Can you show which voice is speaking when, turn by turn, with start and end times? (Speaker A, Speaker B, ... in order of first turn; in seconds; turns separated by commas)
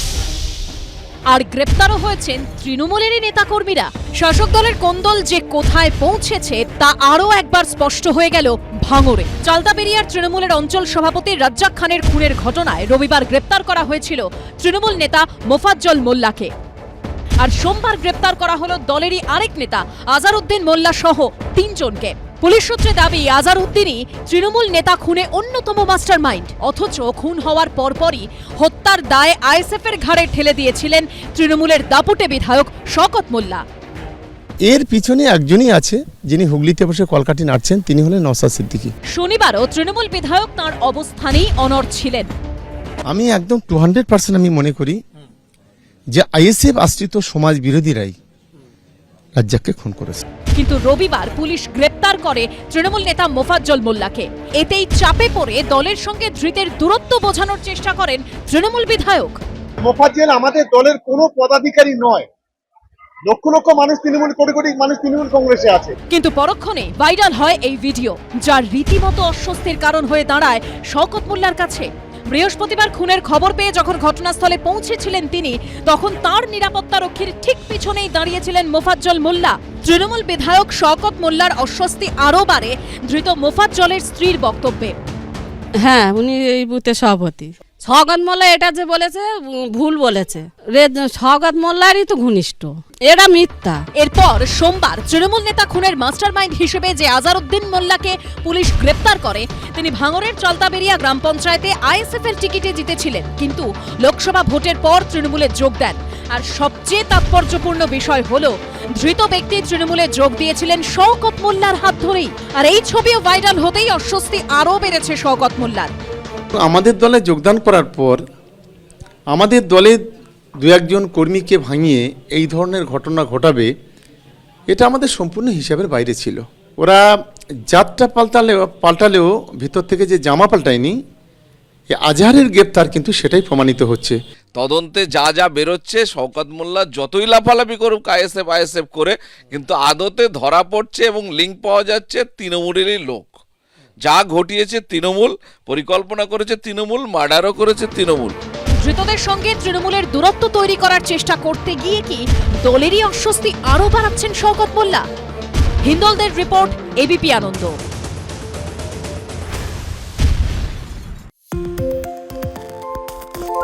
Speaker A: 1.3-16.5, Speaker A: 17.4-33.6, Speaker B: 34.7-38.9, Speaker A: 39.1-42.3, Speaker B: 43.1-45.0, Speaker B: 46.1-48.1, Speaker B: 49.4-50.2, Speaker A: 50.5-59.4, Speaker C: 59.8-62.3, Speaker C: 63.2-66.0, Speaker A: 66.1-85.0, Speaker D: 85.8-93.8, Speaker A: 94.0-115.9, Speaker B: 116.6-118.2, Speaker B: 119.3-120.0, Speaker B: 120.6-123.7, Speaker B: 124.7-127.0, Speaker B: 127.7-131.0, Speaker B: 131.9-134.2, Speaker E: 134.5-143.3, Speaker E: 144.0-148.3, Speaker A: 148.8-155.1, Speaker A: 155.8-157.8